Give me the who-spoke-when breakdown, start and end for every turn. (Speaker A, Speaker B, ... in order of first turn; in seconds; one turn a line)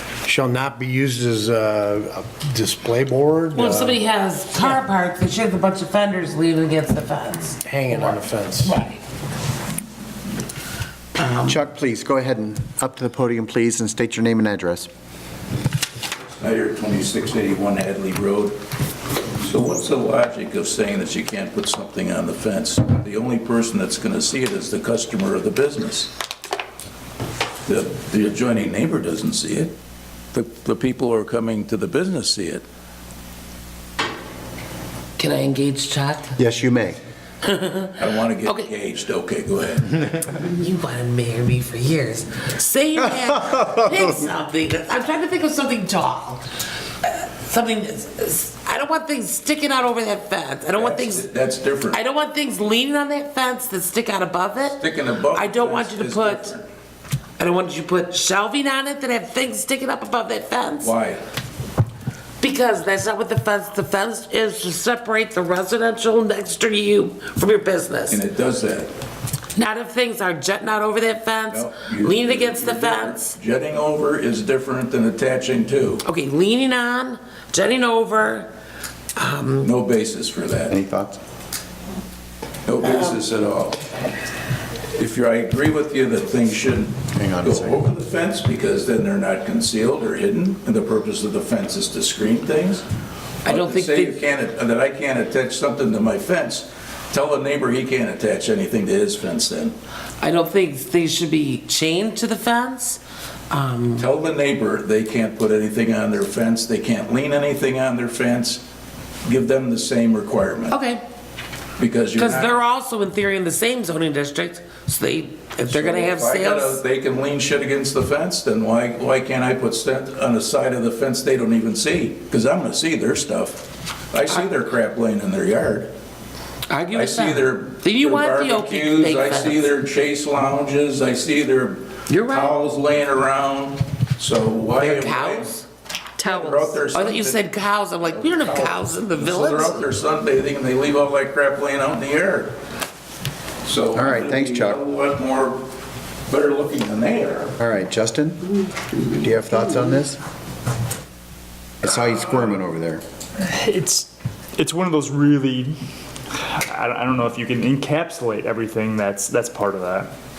Speaker A: 0.2-4.0
Speaker B: 3.5-9.0
Speaker A: 7.7-8.8
Speaker B: 11.2-11.6
Speaker C: 11.4-14.9
Speaker D: 16.4-18.6
Speaker D: 19.4-26.1
Speaker D: 27.7-29.7
Speaker D: 30.3-32.6
Speaker B: 35.2-36.4
Speaker C: 36.4-37.0
Speaker B: 37.4-38.7
Speaker D: 38.0-40.1
Speaker B: 40.4-46.4
Speaker B: 47.0-51.3
Speaker D: 50.8-52.0
Speaker B: 51.9-56.5
Speaker D: 54.8-56.7
Speaker B: 57.4-60.9
Speaker D: 60.8-61.2
Speaker B: 62.4-68.2
Speaker D: 68.1-68.9
Speaker B: 69.6-73.4
Speaker D: 71.5-76.0
Speaker B: 76.0-78.5
Speaker B: 79.2-79.7
Speaker D: 79.6-80.8
Speaker C: 80.7-81.2
Speaker D: 82.7-83.8
Speaker D: 85.0-92.8
Speaker C: 87.1-87.8
Speaker B: 93.5-94.2
Speaker D: 93.5-99.7
Speaker B: 100.2-104.1
Speaker D: 104.0-108.6
Speaker D: 109.3-110.8
Speaker B: 110.7-111.0
Speaker D: 111.8-112.6
Speaker B: 112.2-116.8
Speaker D: 115.7-125.9
Speaker B: 126.7-129.7
Speaker D: 126.9-135.6
Speaker B: 132.1-132.6
Speaker B: 134.8-135.7
Speaker D: 136.2-137.5
Speaker B: 136.2-139.8
Speaker D: 138.0-142.6
Speaker D: 143.6-145.6
Speaker C: 143.9-144.8
Speaker D: 146.3-147.5
Speaker C: 147.6-148.4
Speaker C: 149.0-150.2
Speaker C: 151.8-153.0
Speaker E: 153.5-155.8
Speaker E: 156.7-160.1